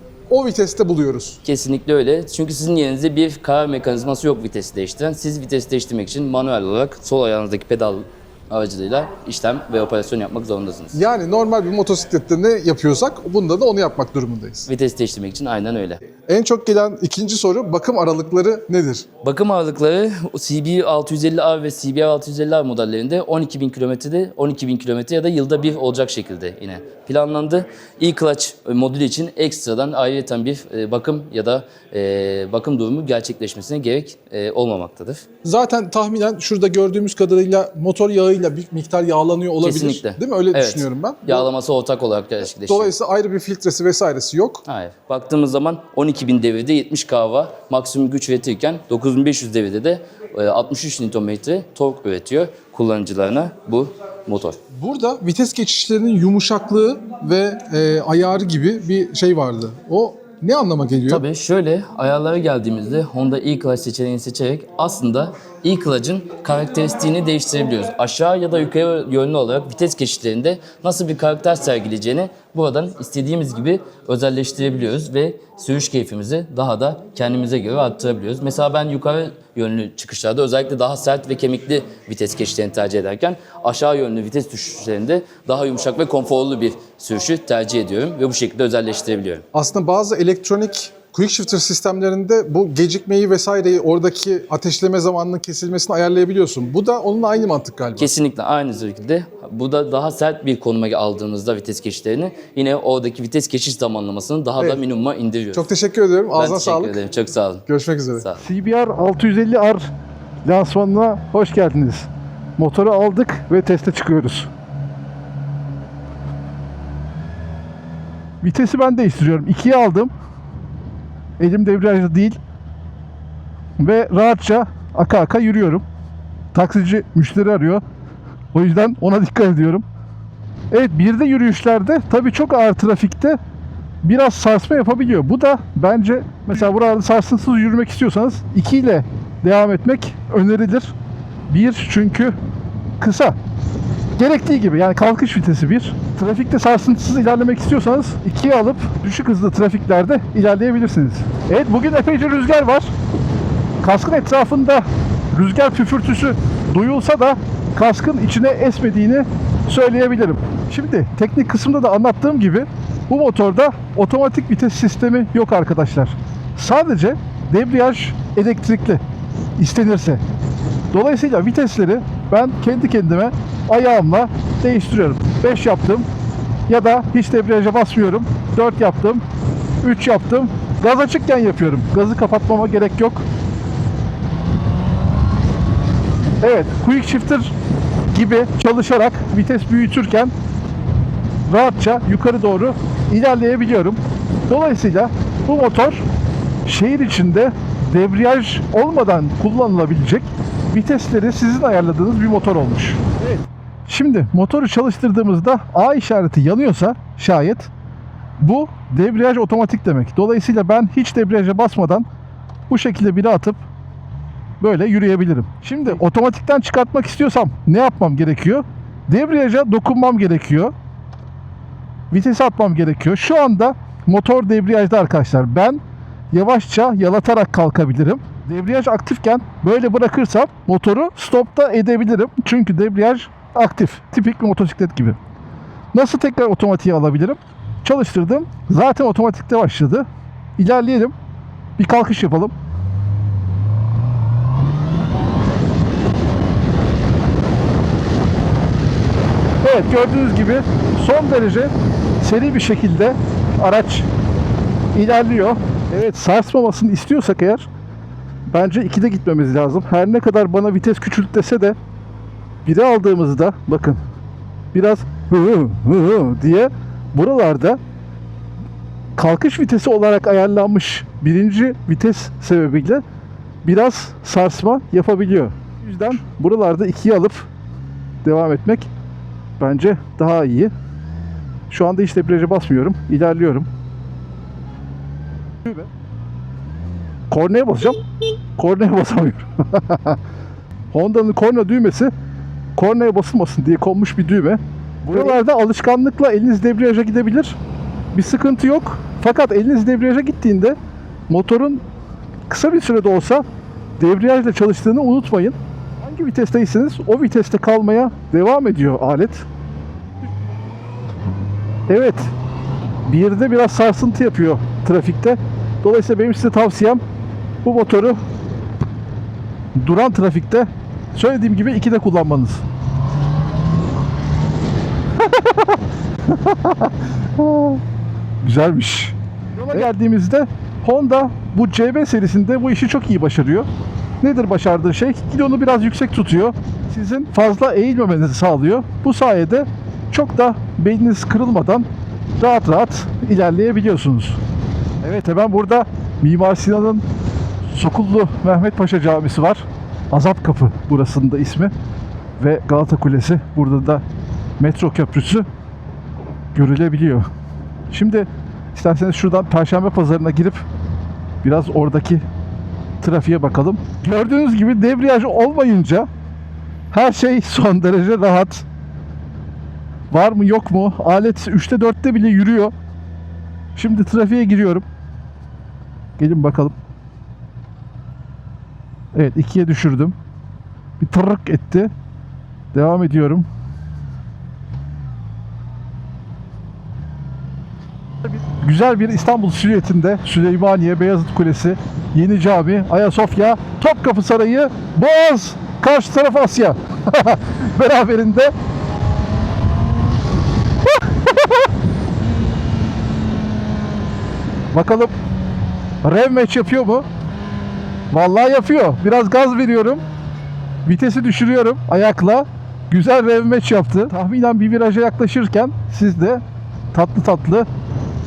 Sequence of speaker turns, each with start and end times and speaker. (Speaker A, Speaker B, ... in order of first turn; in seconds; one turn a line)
Speaker A: 0.3-1.4
Speaker B: 1.4-11.0
Speaker A: 10.9-14.7
Speaker B: 14.7-16.0
Speaker A: 16.3-19.1
Speaker B: 19.2-35.2
Speaker A: 35.4-41.5
Speaker B: 39.6-42.9
Speaker A: 42.7-44.6
Speaker B: 44.7-54.6
Speaker A: 54.7-61.2
Speaker B: 61.1-89.4
Speaker A: 89.5-98.1
Speaker B: 98.0-105.7
Speaker A: 105.5-107.0
Speaker B: 106.3-107.6
Speaker A: 107.7-108.2
Speaker C: 108.4-109.9
Speaker C: 110.4-114.5
Speaker C: 118.4-120.1
Speaker C: 121.4-122.4
Speaker C: 123.8-125.8
Speaker C: 126.5-127.8
Speaker C: 128.5-129.8
Speaker C: 130.7-133.4
Speaker C: 134.0-140.9
Speaker C: 141.5-142.4
Speaker C: 143.0-143.4
Speaker C: 144.2-152.9
Speaker C: 153.8-169.0
Speaker C: 169.6-170.2
Speaker C: 170.9-176.1
Speaker C: 176.7-179.2
Speaker C: 179.8-183.2
Speaker C: 186.4-187.5
Speaker C: 188.1-190.3
Speaker C: 191.5-196.0
Speaker C: 196.6-207.7
Speaker C: 208.4-212.1
Speaker C: 212.7-213.6
Speaker C: 214.6-220.7
Speaker C: 222.1-235.2
Speaker C: 235.9-240.1
Speaker C: 240.6-241.1
Speaker C: 241.8-242.5
Speaker C: 249.6-254.1
Speaker C: 254.9-257.7
Speaker C: 258.5-261.8
Speaker C: 262.6-264.0
Speaker C: 264.7-267.8
Speaker C: 269.2-273.0
Speaker C: 273.6-277.5
Speaker C: 278.2-278.9
Speaker C: 279.6-280.7
Speaker C: 281.7-283.7
Speaker C: 285.6-285.9
Speaker C: 287.3-288.0
Speaker C: 288.6-290.2
Speaker C: 290.9-292.1
Speaker C: 292.7-297.6
Speaker C: 298.1-300.8
Speaker C: 301.3-301.8
Speaker C: 302.5-303.4
Speaker C: 304.0-309.4
Speaker C: 311.9-312.3
Speaker C: 313.0-317.0
Speaker C: 317.6-318.2
Speaker C: 319.8-322.6
Speaker C: 325.2-325.7
Speaker C: 326.3-327.8
Speaker C: 328.4-333.7
Speaker C: 334.2-341.9
Speaker C: 342.4-344.4
Speaker C: 345.0-347.0
Speaker C: 347.7-351.7
Speaker C: 352.4-354.0
Speaker C: 354.6-355.4
Speaker C: 356.5-357.3
Speaker C: 357.9-360.6
Speaker C: 361.4-362.2
Speaker C: 363.0-366.1
Speaker C: 366.9-368.6
Speaker C: 370.1-372.7
Speaker C: 373.7-374.8
Speaker C: 376.2-376.8
Speaker C: 379.1-380.1
Speaker C: 381.0-381.9
Speaker C: 382.7-383.5
Speaker C: 388.6-398.5
Speaker C: 404.7-405.1
Speaker C: 406.0-407.1
Speaker C: 408.1-410.0
Speaker C: 410.8-417.7